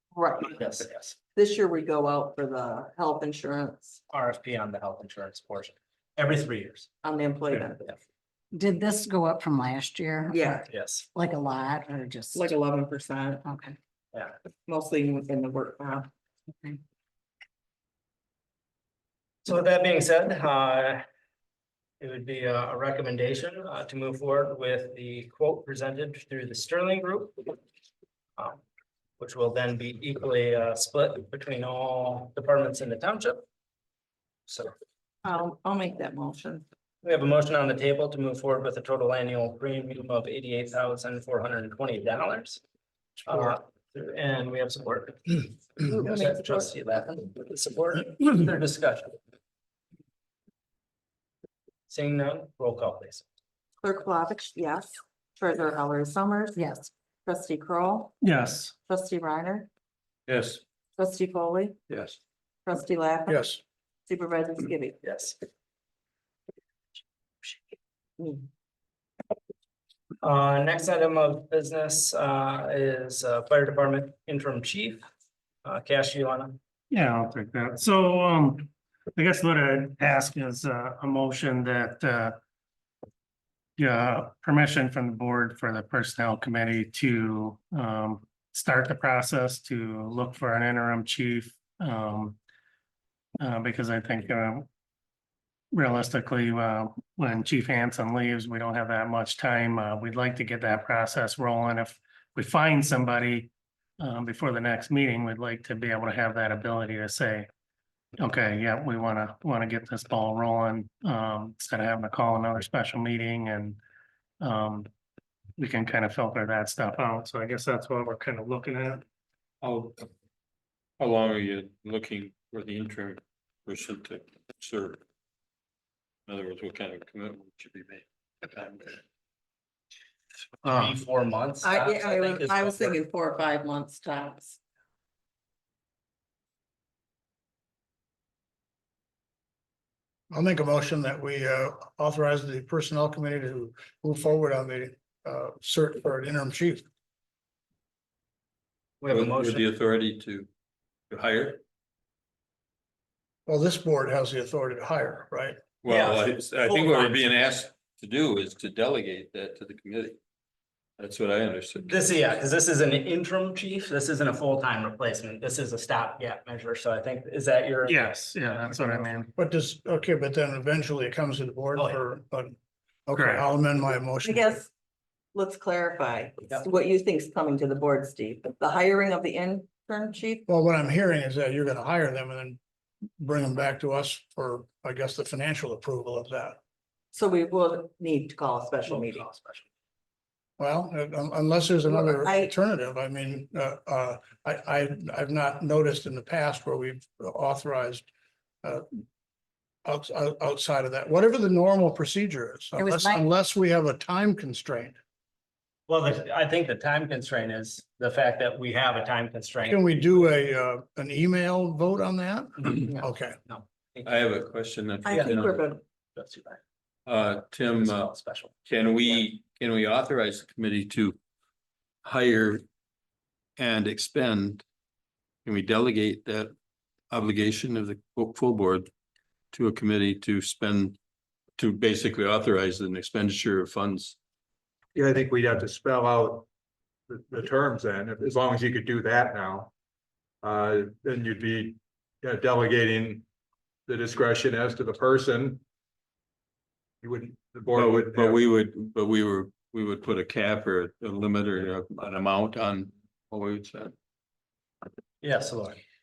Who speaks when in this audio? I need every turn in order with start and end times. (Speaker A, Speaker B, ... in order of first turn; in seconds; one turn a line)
Speaker A: 0.1-0.6
Speaker B: 0.5-1.2
Speaker A: 1.3-4.0
Speaker B: 4.1-6.9
Speaker A: 7.0-7.9
Speaker C: 8.5-12.5
Speaker A: 10.3-10.7
Speaker B: 10.7-11.1
Speaker A: 12.3-13.4
Speaker C: 13.4-13.8
Speaker A: 14.7-16.1
Speaker B: 19.4-21.1
Speaker B: 22.0-27.6
Speaker B: 28.4-28.6
Speaker B: 29.2-33.5
Speaker B: 34.5-34.8
Speaker A: 35.2-36.6
Speaker B: 37.0-42.6
Speaker B: 43.2-49.2
Speaker A: 45.9-46.7
Speaker B: 51.9-53.3
Speaker A: 53.8-56.6
Speaker C: 56.6-56.9
Speaker A: 57.3-58.2
Speaker D: 58.2-58.8
Speaker A: 58.9-59.7
Speaker E: 60.3-60.6
Speaker A: 61.0-61.8
Speaker A: 62.7-63.6
Speaker F: 63.3-63.6
Speaker A: 64.1-65.0
Speaker B: 65.0-65.4
Speaker A: 68.2-68.4
Speaker B: 70.2-75.1
Speaker B: 75.6-76.6
Speaker D: 76.9-82.4
Speaker D: 83.8-92.4
Speaker D: 93.4-94.7
Speaker D: 95.7-107.5
Speaker D: 108.2-113.8
Speaker D: 114.4-114.9
Speaker D: 115.6-119.0
Speaker E: 119.6-120.0
Speaker E: 121.0-125.0
Speaker E: 126.3-129.0
Speaker B: 130.6-133.0
Speaker A: 131.6-134.6
Speaker F: 140.3-146.8
Speaker B: 149.0-149.7
Speaker E: 149.1-150.5
Speaker E: 151.1-151.6
Speaker F: 153.5-155.6
Speaker E: 155.8-160.2
Speaker B: 155.9-157.4
Speaker E: 161.0-162.2
Speaker B: 161.9-168.7
Speaker D: 167.9-169.3
Speaker F: 169.4-174.6
Speaker B: 171.8-172.0
Speaker D: 173.1-173.5
Speaker A: 174.2-174.7
Speaker A: 175.3-180.4
Speaker F: 180.5-182.6
Speaker F: 183.2-186.6
Speaker A: 187.1-189.6
Speaker F: 190.6-198.1
Speaker A: 191.9-192.5
Speaker F: 198.6-199.0
Speaker F: 199.8-205.0
Speaker C: 202.8-203.3
Speaker B: 205.9-210.0
Speaker F: 209.7-213.4
Speaker B: 213.5-214.1
Speaker E: 214.1-215.7
Speaker A: 215.1-215.8
Speaker B: 216.2-216.6
Speaker E: 217.1-218.1
Speaker B: 217.7-219.2
Speaker E: 218.7-221.2
Speaker E: 222.0-222.6
Speaker E: 223.6-224.6
Speaker E: 225.4-226.5
Speaker E: 227.1-228.9
Speaker E: 229.5-231.0
Speaker E: 231.6-234.2
Speaker G: 234.9-236.5
Speaker G: 237.1-239.7
Speaker G: 240.4-243.3
Speaker G: 243.9-245.6
Speaker G: 247.0-248.4
Speaker E: 247.7-253.9
Speaker B: 255.2-255.8